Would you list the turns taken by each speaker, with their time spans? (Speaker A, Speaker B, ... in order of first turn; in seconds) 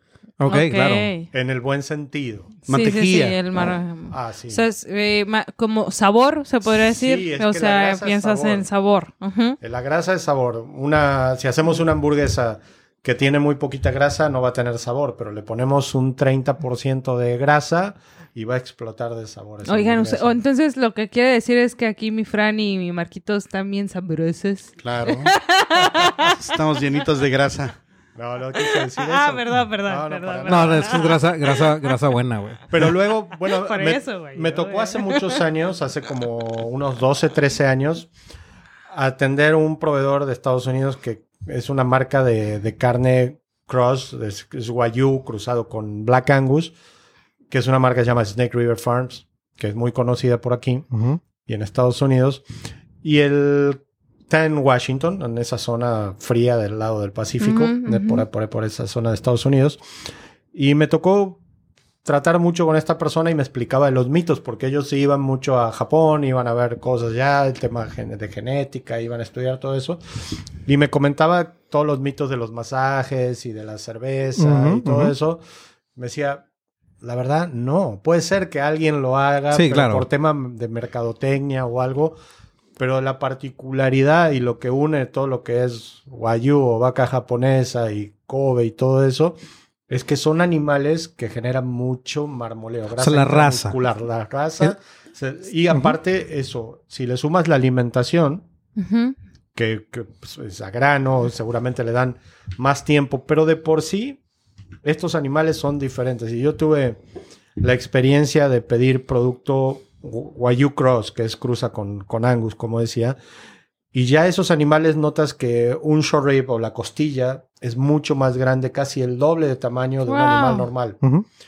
Speaker A: 0.4-1.1, 30.5-32.8, 50.9-51.2, 74.4-75.1, 79.5-80.0, 93.0-93.8, 95.7-96.0
Speaker B: 0.4-1.3, 2.7-9.6, 19.6-27.0, 28.5-32.0, 33.5-35.4, 57.4-58.2, 98.8-99.1, 120.0-120.7
Speaker C: 1.3-2.5, 4.1-4.6, 6.7-8.7, 9.6-20.4, 28.1-31.0, 32.7-38.1, 38.9-46.7, 47.5-50.9, 51.4-52.4, 53.0-59.8, 60.5-61.4, 62.0-75.4, 76.0-76.4, 77.0-82.2, 82.8-89.3, 89.9-98.4, 99.5-104.2, 104.8-107.0, 107.6-113.2, 113.9-121.0
Speaker D: 2.7-3.8, 24.8-25.3, 26.0-27.8